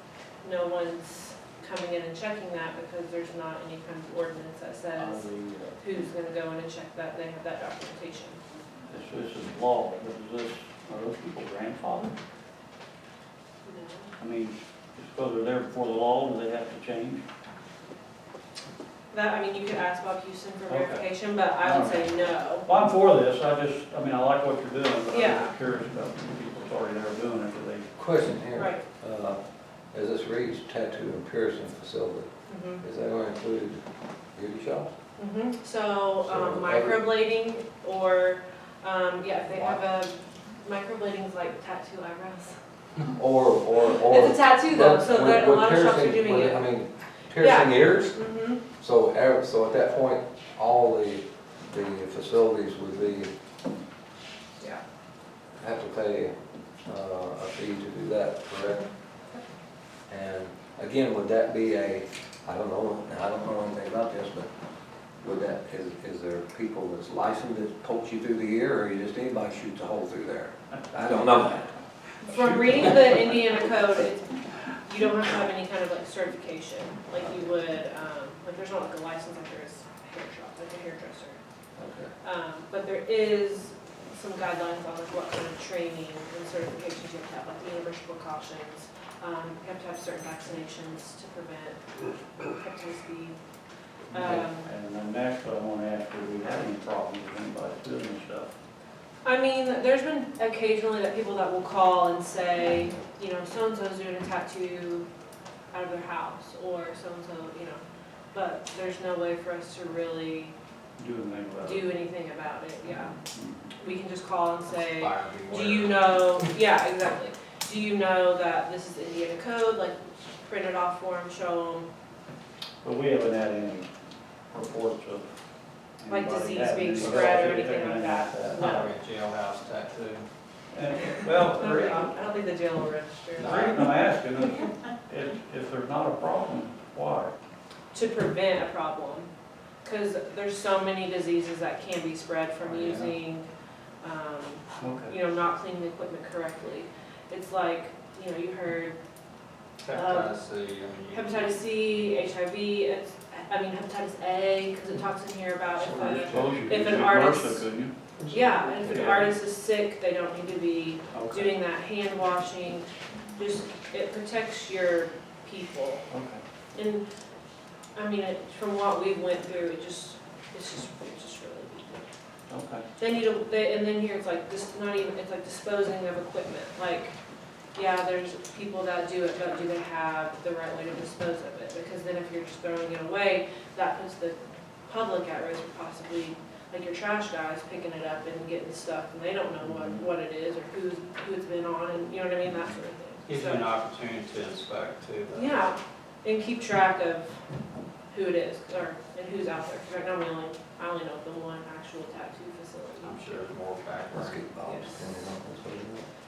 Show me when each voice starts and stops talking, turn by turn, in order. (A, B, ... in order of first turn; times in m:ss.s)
0:00.4-0:05.2 A
0:05.0-0:05.8 B
0:05.8-0:08.4 A
0:08.9-0:12.1 B
0:13.6-0:14.1 A
0:14.2-0:17.2 B
0:19.1-0:22.7 A
0:20.7-0:21.1 B
0:21.6-0:27.9 B
0:25.1-0:25.5 A
0:28.0-0:29.4 C
0:28.6-0:28.8 A
0:29.9-0:32.3 C
0:32.5-0:32.8 A
0:32.8-0:33.8 C
0:34.3-0:34.9 C
0:35.2-0:42.6 A
0:36.2-0:37.0 C
0:39.5-0:39.8 C
0:43.1-0:48.2 C
0:44.0-0:46.7 A
0:47.4-0:48.6 A
0:48.8-0:53.3 C
0:55.6-0:56.3 C
0:56.8-0:58.9 C
1:00.1-1:04.5 C
1:05.2-1:11.7 C
1:12.2-1:21.4 A
1:12.4-1:12.9 B
1:17.2-1:17.4 C
1:21.8-1:22.1 C
1:22.2-1:33.4 A
1:34.1-1:34.7 A
1:34.1-1:38.5 B
1:39.2-1:45.1 A
1:45.7-1:47.8 A
1:48.3-1:50.5 A
1:51.0-1:51.9 B
1:51.6-1:53.1 A
1:53.3-1:53.7 B
1:53.8-2:01.9 A
1:54.7-1:56.1 D
2:02.8-2:03.9 B
2:04.5-2:05.3 B
2:06.0-2:08.9 B
2:06.1-2:08.9 A
2:07.0-2:07.3 D
2:08.5-2:10.3 D
2:10.7-2:12.1 B
2:11.5-2:13.7 A
2:13.4-2:14.0 D
2:13.4-2:17.3 B
2:17.9-2:19.3 A
2:19.8-2:23.5 A
2:22.6-2:23.1 D
2:24.0-2:29.0 A
2:24.8-2:25.1 B
2:29.8-2:31.6 D
2:29.9-2:30.3 A
2:31.1-2:37.6 A
2:35.9-2:37.9 B
2:36.2-2:36.4 C
2:38.2-2:39.3 D
2:38.3-2:46.0 A
2:38.8-2:39.3 B
2:41.1-2:41.5 B
2:46.1-2:46.4 B
2:46.7-2:47.0 A
2:48.0-2:52.0 A
2:52.5-2:52.8 B
2:53.0-2:57.2 A
2:57.7-3:13.7 A
3:09.6-3:10.1 B
3:13.3-3:15.6 D
3:15.3-3:17.4 A
3:18.1-3:23.4 A
3:23.0-3:24.4 D
3:24.1-3:26.1 C
3:24.6-3:25.2 A